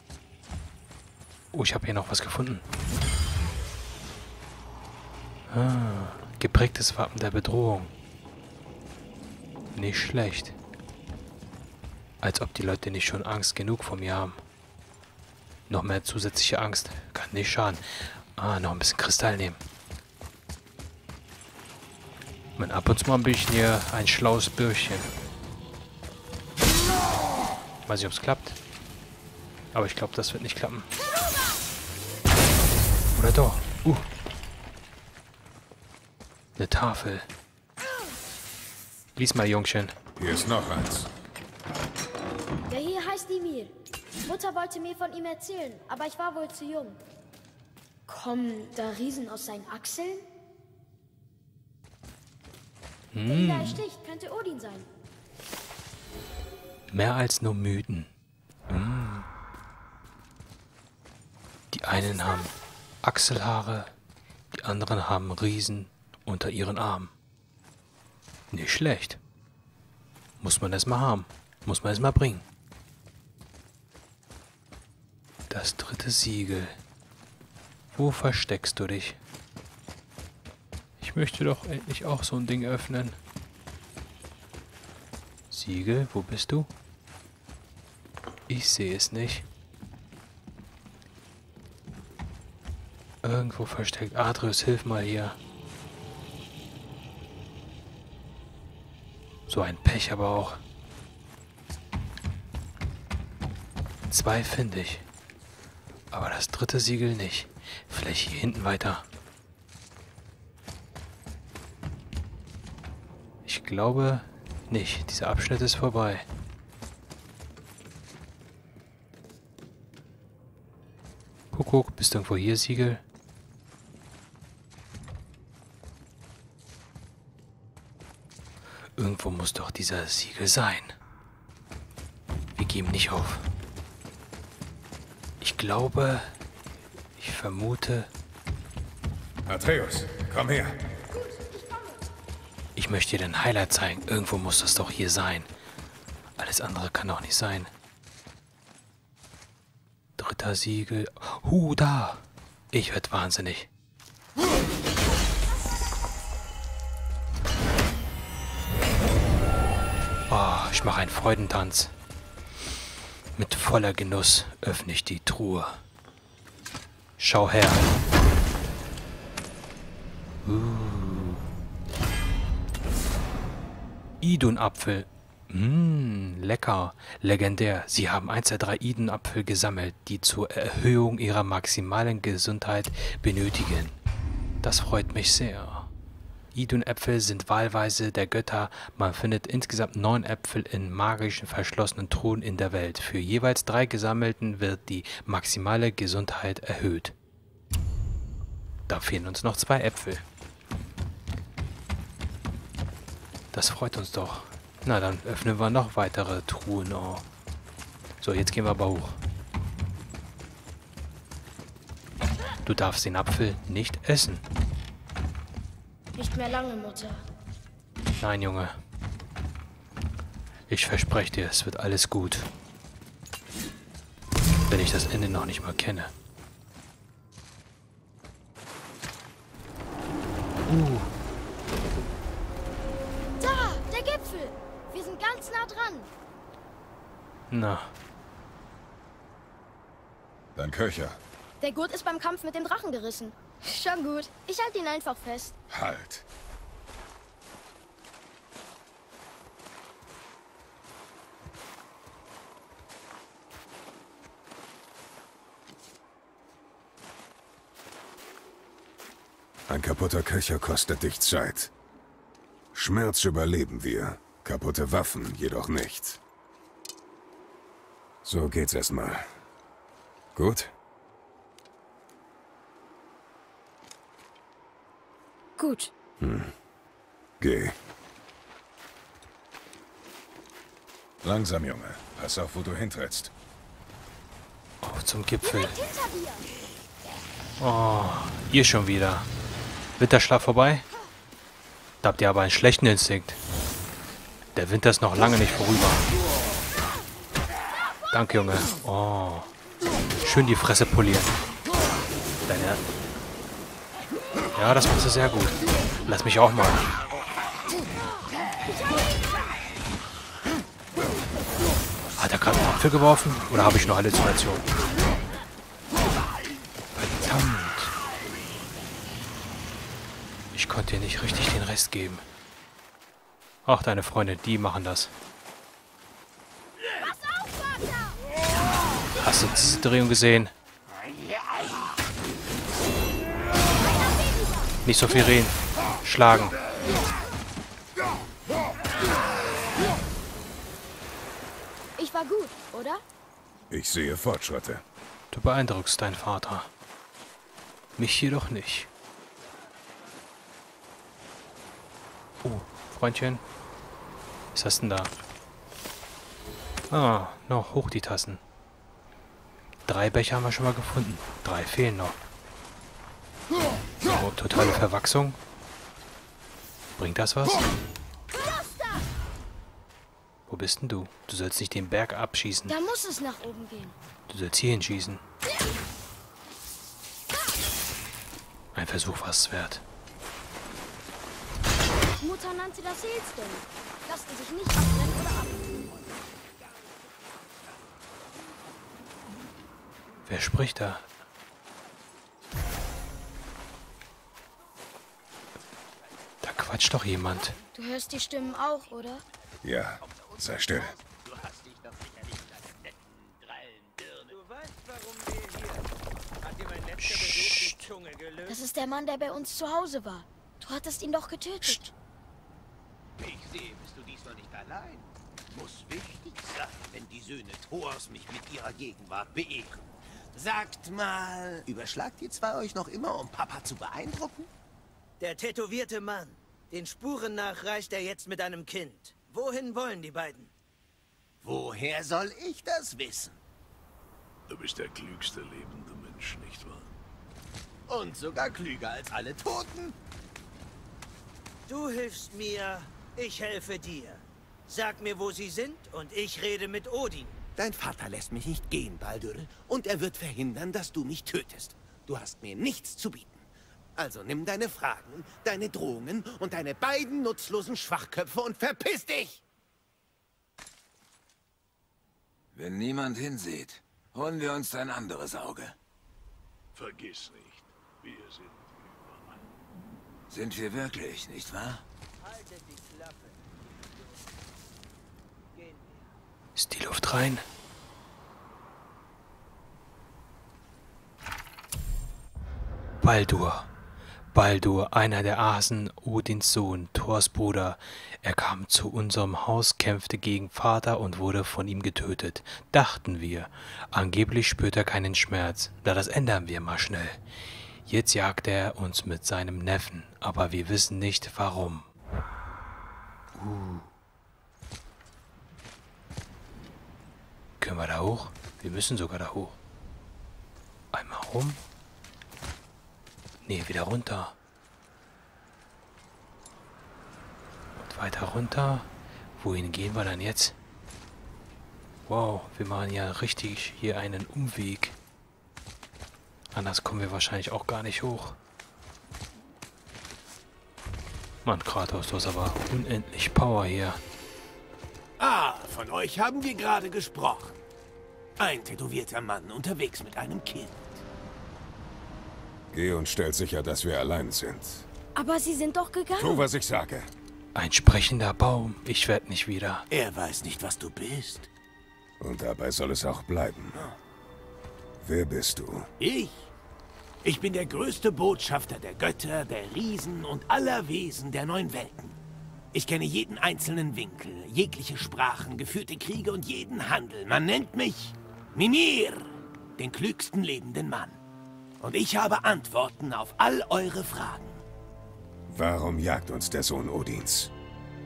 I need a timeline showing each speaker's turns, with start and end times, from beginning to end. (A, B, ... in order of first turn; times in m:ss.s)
0:01.5-0:02.6 A
0:05.5-0:07.9 A
0:09.8-0:10.6 A
0:12.2-0:14.4 A
0:15.7-0:19.6 A
0:22.6-0:25.1 A
0:27.9-0:28.6 A
0:29.7-0:30.9 A
0:33.1-0:34.0 A
0:36.6-0:37.3 A
0:39.2-0:40.0 A
0:40.2-0:41.1 B
0:42.7-0:43.7 C
0:44.2-0:47.0 C
0:48.1-0:50.2 C
0:53.1-0:53.8 A
0:53.3-0:54.9 C
0:56.9-0:58.1 A
0:58.7-0:59.3 A
1:01.7-1:03.9 A
1:04.5-1:07.1 A
1:08.5-1:09.2 A
1:10.4-1:12.4 A
1:15.5-1:16.8 A
1:17.9-1:19.2 A
1:21.0-1:23.2 A
1:25.5-1:26.7 A
1:28.5-1:29.5 A
1:33.2-1:35.4 A
1:39.5-1:40.6 A
1:44.1-1:45.0 A
1:46.1-1:49.0 A
1:53.4-1:56.2 A
2:01.5-2:03.0 A
2:09.0-2:11.0 A
2:12.6-2:13.5 A
2:15.4-2:16.3 A
2:17.2-2:18.1 A
2:19.5-2:20.8 B
2:21.1-2:22.0 C
2:22.8-2:25.5 A
2:26.4-2:27.7 A
2:30.2-2:33.7 A
2:40.3-2:41.9 A
2:43.4-2:45.8 A
2:47.2-2:47.9 A
2:50.4-2:51.4 A
2:54.2-3:04.0 A
3:04.6-3:05.9 A
3:06.5-3:17.1 A
3:18.9-3:20.2 A
3:23.5-3:27.2 A
3:28.2-3:29.2 A
3:32.6-3:34.4 A
3:36.1-3:37.2 C
3:38.2-3:38.8 A
3:40.7-3:42.5 A
3:44.7-3:46.1 A
3:50.6-3:51.1 A
3:53.4-3:56.1 C
3:57.5-3:57.9 A
4:00.5-4:01.2 B
4:01.6-4:05.6 C
4:05.7-4:06.2 B
4:19.7-4:21.7 B
4:22.7-4:26.2 B
4:28.2-4:29.2 B
4:30.4-4:30.7 B
4:35.6-4:35.9 C
4:36.2-4:36.5 B
4:37.4-4:37.8 B
4:41.2-4:43.3 B
4:44.8-4:45.8 A
4:45.4-4:46.5 C
4:47.6-4:49.3 A
4:50.0-4:50.9 A
4:52.0-4:53.4 A
4:54.5-4:56.0 A
4:58.1-4:59.5 A
5:00.2-5:01.4 A
5:02.5-5:02.8 A
5:04.5-5:06.9 A
5:12.2-5:14.7 A
5:17.0-5:17.9 A
5:20.5-5:22.2 A
5:23.6-5:25.1 A
5:27.0-5:27.8 C
5:29.2-5:30.5 A
5:33.8-5:34.7 C
5:34.8-5:36.6 A
5:42.0-5:43.0 C
5:43.7-5:44.8 B
5:45.3-5:46.7 A
5:48.0-5:48.9 A
5:52.4-5:53.4 A
5:54.5-5:55.1 A
5:56.9-5:58.4 A
5:59.9-6:02.2 A
6:04.0-6:05.4 A
6:07.0-6:07.6 A
6:10.5-6:12.8 A
6:12.7-6:14.0 C
6:14.3-6:15.2 A
6:18.7-6:19.8 A
6:22.2-6:26.0 C
6:30.2-6:31.0 A
6:36.4-6:37.5 A
6:37.8-6:39.2 C
6:39.6-6:41.0 B
6:40.0-6:44.3 D
6:44.3-6:45.9 E
6:46.4-6:48.6 E
6:47.0-6:47.8 A
6:48.5-6:51.8 C
6:51.6-6:51.9 B
6:53.2-7:04.5 D
7:05.2-7:10.5 E
7:11.4-7:13.4 D
7:14.5-7:16.9 F
7:17.9-7:20.0 D
7:21.7-7:27.4 E
7:27.6-7:33.4 D
7:34.0-7:39.4 D
7:42.5-7:45.8 G
7:46.8-7:49.5 F
7:50.3-7:51.8 G
7:52.2-7:54.2 E
7:55.5-7:56.1 E
7:56.5-7:57.4 A
8:03.0-8:03.7 A
8:04.3-8:17.2 A
8:17.8-8:21.9 A
8:23.4-8:23.8 A
8:27.6-8:29.6 A
8:30.9-8:31.6 A
8:33.4-8:34.4 A
8:37.8-8:40.6 A
8:42.0-8:45.0 A
8:46.5-8:48.4 A
8:51.4-8:54.0 A
8:55.2-8:57.6 D
8:58.4-9:01.0 D
9:02.7-9:04.9 B
9:05.2-9:06.4 C
9:06.2-9:07.1 B
9:07.5-9:09.9 A
9:09.9-9:11.5 D
9:12.2-9:13.9 B
9:15.0-9:15.9 B
9:16.0-9:16.5 D
9:17.2-9:22.2 D
9:22.7-9:31.2 D
9:31.8-9:34.6 D
9:35.5-9:37.5 B